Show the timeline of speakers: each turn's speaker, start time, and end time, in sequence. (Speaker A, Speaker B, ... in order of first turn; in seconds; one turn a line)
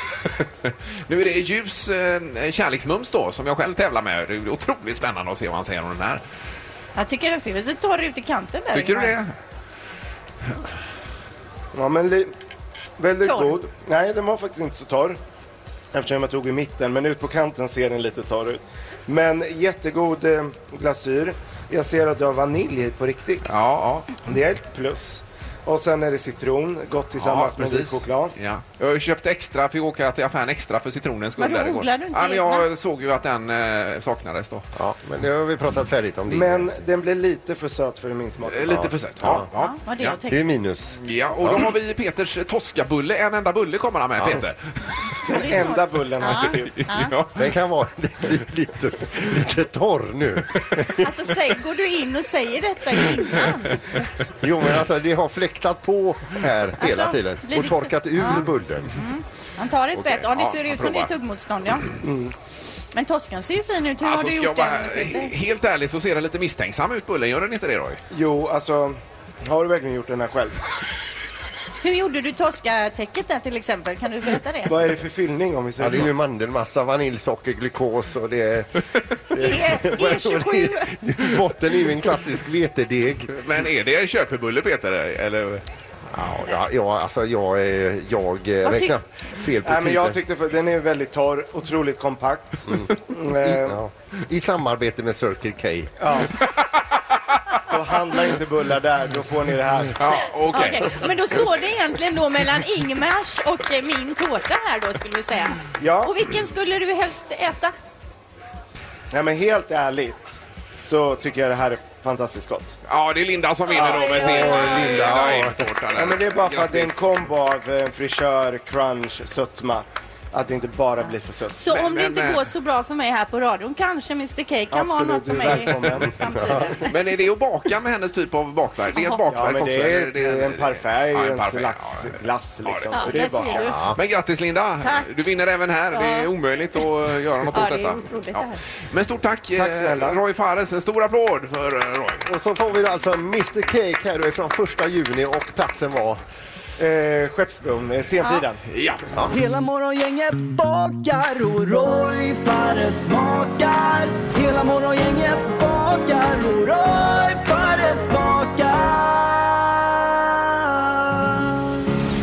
Speaker A: 0.3-6.2
Speaker B: 7.0-9.2
Speaker A: 8.7-9.3
Speaker C: 11.7-12.3
Speaker C: 13.0-15.2
Speaker B: 13.2-13.6
Speaker C: 15.9-23.5
Speaker A: 23.4-24.1
Speaker C: 24.2-28.3
Speaker A: 27.2-34.7
Speaker B: 31.4-32.7
Speaker D: 34.8-36.7
Speaker C: 36.3-38.9
Speaker A: 38.5-40.2
Speaker D: 39.2-39.5
Speaker B: 39.6-40.4
Speaker D: 40.3-41.7
Speaker A: 41.0-44.7
Speaker C: 45.3-46.9
Speaker B: 45.3-47.1
Speaker A: 46.3-47.5
Speaker D: 47.4-50.9
Speaker B: 51.0-53.7
Speaker D: 54.4-59.0
Speaker B: 56.8-58.4
Speaker B: 59.0-61.9
Speaker A: 59.9-61.1
Speaker C: 62.0-62.4
Speaker B: 63.0-65.3
Speaker A: 64.0-68.0
Speaker C: 68.1-70.6
Speaker B: 71.8-74.7
Speaker C: 74.7-76.1
Speaker D: 75.8-83.3
Speaker B: 79.4-80.9
Speaker A: 83.3-85.6
Speaker D: 86.1-90.2
Speaker C: 89.6-93.8
Speaker D: 92.7-95.9
Speaker C: 96.0-96.3
Speaker C: 97.6-100.0
Speaker A: 100.0-101.5
Speaker B: 100.5-107.7
Speaker C: 105.8-106.2
Speaker C: 109.1-112.8
Speaker A: 112.9-117.0
Speaker C: 113.7-115.0
Speaker B: 113.8-115.2
Speaker D: 114.1-115.7
Speaker C: 116.0-121.6
Speaker B: 121.6-126.9
Speaker A: 121.7-122.4
Speaker C: 124.7-126.9
Speaker D: 125.5-126.6
Speaker A: 126.8-133.2
Speaker B: 128.9-129.2
Speaker C: 129.3-133.8
Speaker B: 132.9-133.8
Speaker D: 133.7-134.0
Speaker A: 133.9-142.2
Speaker B: 134.8-135.1
Speaker B: 135.9-136.3
Speaker B: 137.5-138.6
Speaker C: 139.6-140.2
Speaker D: 142.2-146.2
Speaker C: 146.8-148.6
Speaker A: 148.7-149.1
Speaker E: 149.3-161.3